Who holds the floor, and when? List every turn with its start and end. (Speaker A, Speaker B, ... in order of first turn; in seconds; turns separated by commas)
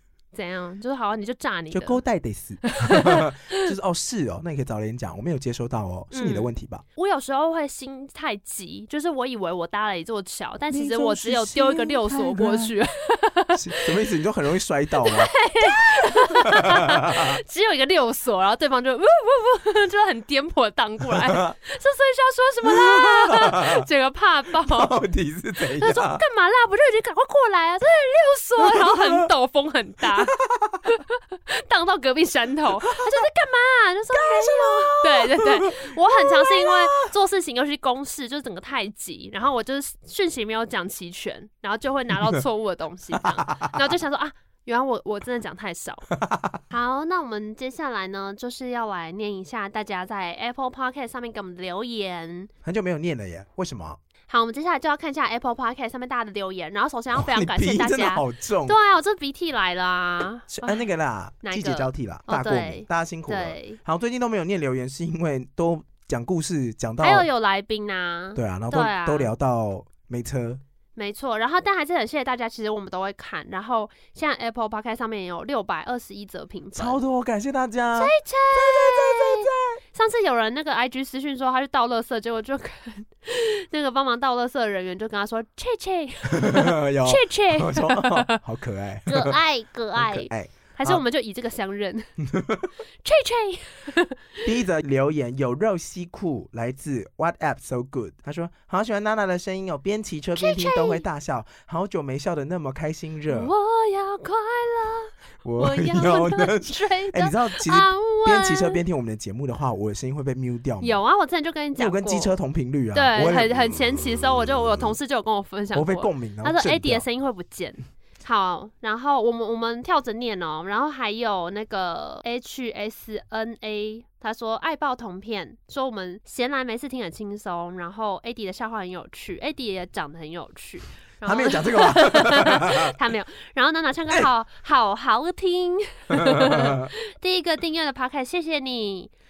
Speaker A: 0.3-2.0, Speaker B: 1.7-6.8, Speaker A: 2.6-3.6, Speaker A: 6.1-13.9, Speaker B: 10.7-12.8, Speaker B: 13.6-17.4, Speaker A: 15.0-24.9, Speaker B: 21.1-21.5, Speaker B: 22.6-23.8, Speaker B: 24.6-26.2, Speaker A: 25.8-46.1, Speaker B: 28.6-29.3, Speaker B: 30.0-30.8, Speaker B: 32.9-33.2, Speaker B: 34.1-37.0, Speaker B: 43.5-43.7, Speaker B: 46.1-46.6, Speaker A: 46.7-52.5, Speaker B: 52.6-54.0, Speaker A: 54.3-60.9, Speaker B: 57.1-58.8, Speaker B: 60.5-67.3, Speaker A: 61.4-63.8, Speaker A: 67.0-69.3, Speaker B: 68.3-70.6, Speaker A: 71.0-77.0, Speaker B: 76.7-79.8, Speaker A: 78.0-88.4, Speaker B: 86.3-89.4, Speaker A: 89.1-92.1, Speaker B: 90.0-91.0, Speaker B: 92.2-92.7, Speaker A: 93.0-94.4, Speaker B: 94.4-103.5, Speaker A: 100.3-101.0, Speaker A: 103.3-108.8, Speaker B: 105.4-111.0, Speaker A: 110.8-112.3, Speaker B: 111.8-114.9, Speaker A: 112.9-139.1, Speaker B: 115.7-117.0, Speaker B: 131.2-132.9, Speaker B: 136.1-136.9